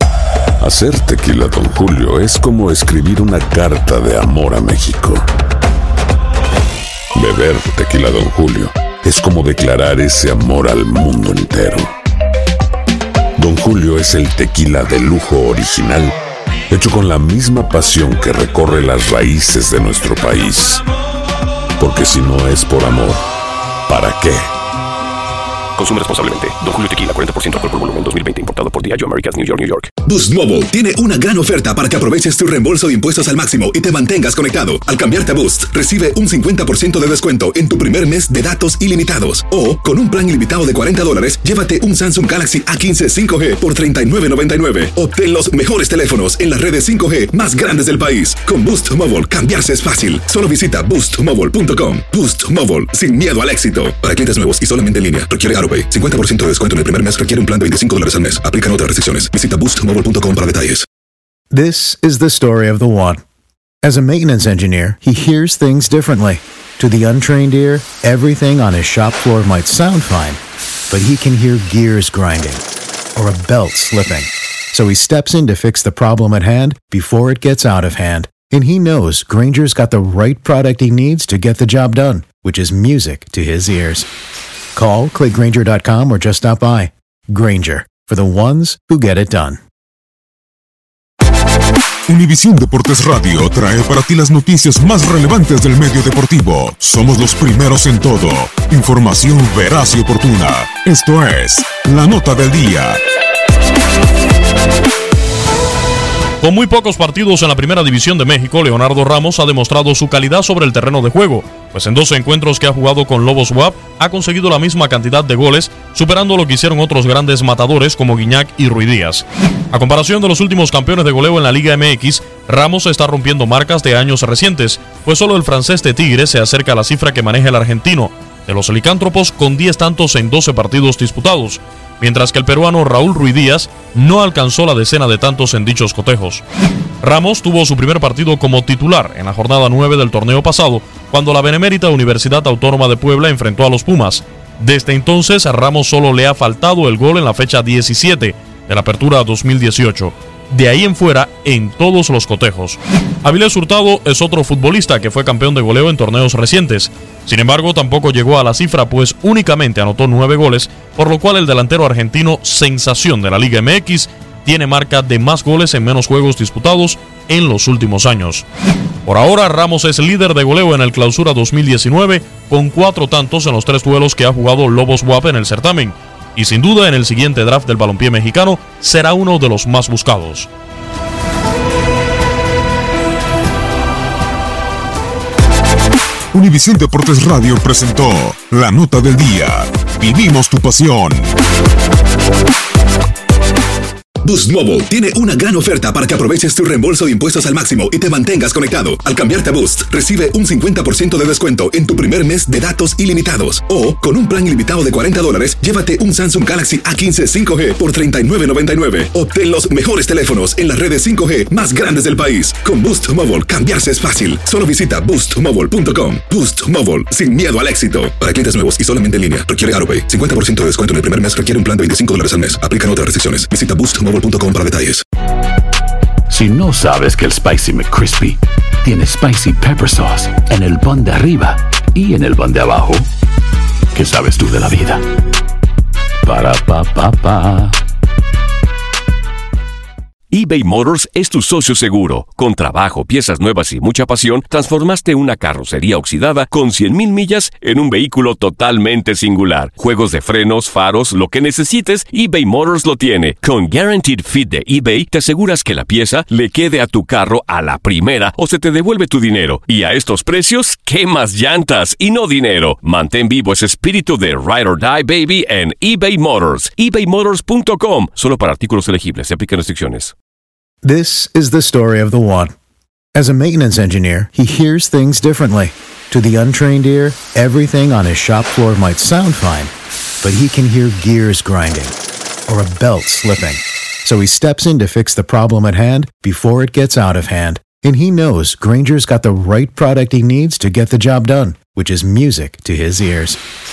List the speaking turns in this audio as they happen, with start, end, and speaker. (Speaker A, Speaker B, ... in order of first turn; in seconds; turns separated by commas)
Speaker A: 0.6-5.2, Speaker A: 7.1-11.9, Speaker A: 13.4-16.1, Speaker A: 16.7-20.8, Speaker A: 21.8-23.2, Speaker A: 23.9-24.4, Speaker B: 25.8-29.8, Speaker C: 30.1-60.8, Speaker D: 61.5-63.2, Speaker D: 63.8-72.6, Speaker D: 73.2-84.1, Speaker D: 84.7-89.6, Speaker E: 92.1-103.0, Speaker F: 106.4-136.4, Speaker F: 137.0-168.4, Speaker F: 169.1-180.5, Speaker E: 186.3-191.3, Speaker C: 194.2-225.0, Speaker G: 226.4-233.0, Speaker A: 229.9-230.4, Speaker G: 233.9-234.8, Speaker G: 236.3-237.7, Speaker B: 240.3-270.1, Speaker D: 270.8-272.5, Speaker D: 273.1-279.7, Speaker D: 280.2-281.9, Speaker D: 282.5-293.4